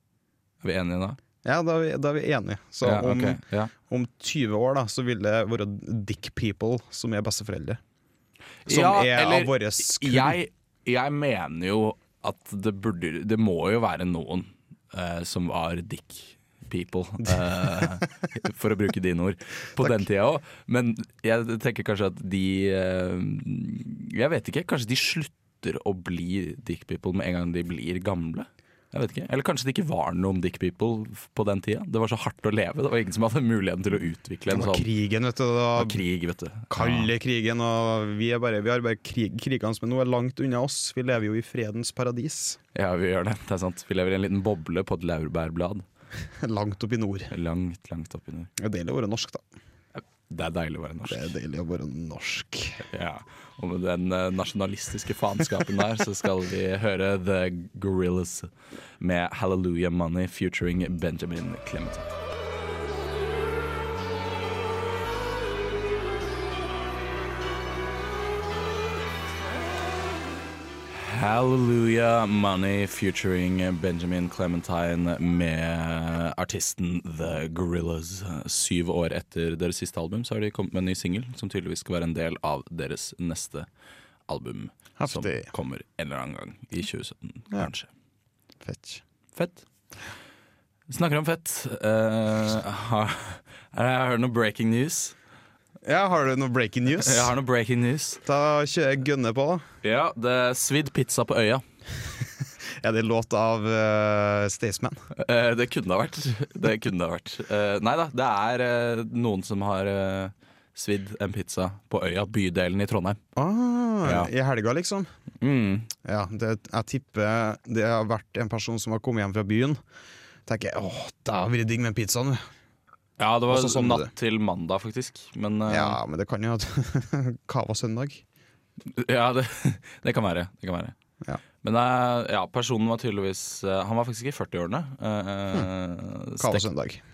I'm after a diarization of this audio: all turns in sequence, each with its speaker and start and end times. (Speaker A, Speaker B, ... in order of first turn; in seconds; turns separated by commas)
Speaker A: 0.6-1.2, Speaker B: 1.4-7.8, Speaker A: 2.8-3.7, Speaker A: 8.6-34.9, Speaker B: 8.7-10.4, Speaker B: 34.5-36.0, Speaker A: 35.7-37.1, Speaker B: 36.7-42.6, Speaker A: 42.7-45.8, Speaker B: 46.4-47.3, Speaker A: 47.3-48.5, Speaker B: 48.6-49.4, Speaker A: 49.9-51.3, Speaker B: 51.1-52.8, Speaker A: 52.9-62.1, Speaker A: 70.9-83.7, Speaker A: 84.3-87.9, Speaker B: 85.0-85.5, Speaker B: 88.6-89.0, Speaker A: 89.3-89.6, Speaker A: 90.9-95.2, Speaker B: 95.8-97.3, Speaker A: 97.0-98.2, Speaker B: 98.2-99.7, Speaker A: 99.8-101.6, Speaker B: 102.8-105.0, Speaker A: 105.1-113.2, Speaker B: 113.3-115.1, Speaker A: 114.0-114.3, Speaker A: 115.4-115.9, Speaker B: 116.0-119.8, Speaker B: 120.5-122.4, Speaker A: 123.2-126.0, Speaker B: 123.5-124.1, Speaker B: 125.7-128.2, Speaker A: 128.8-130.9, Speaker A: 131.6-136.7, Speaker B: 136.4-137.0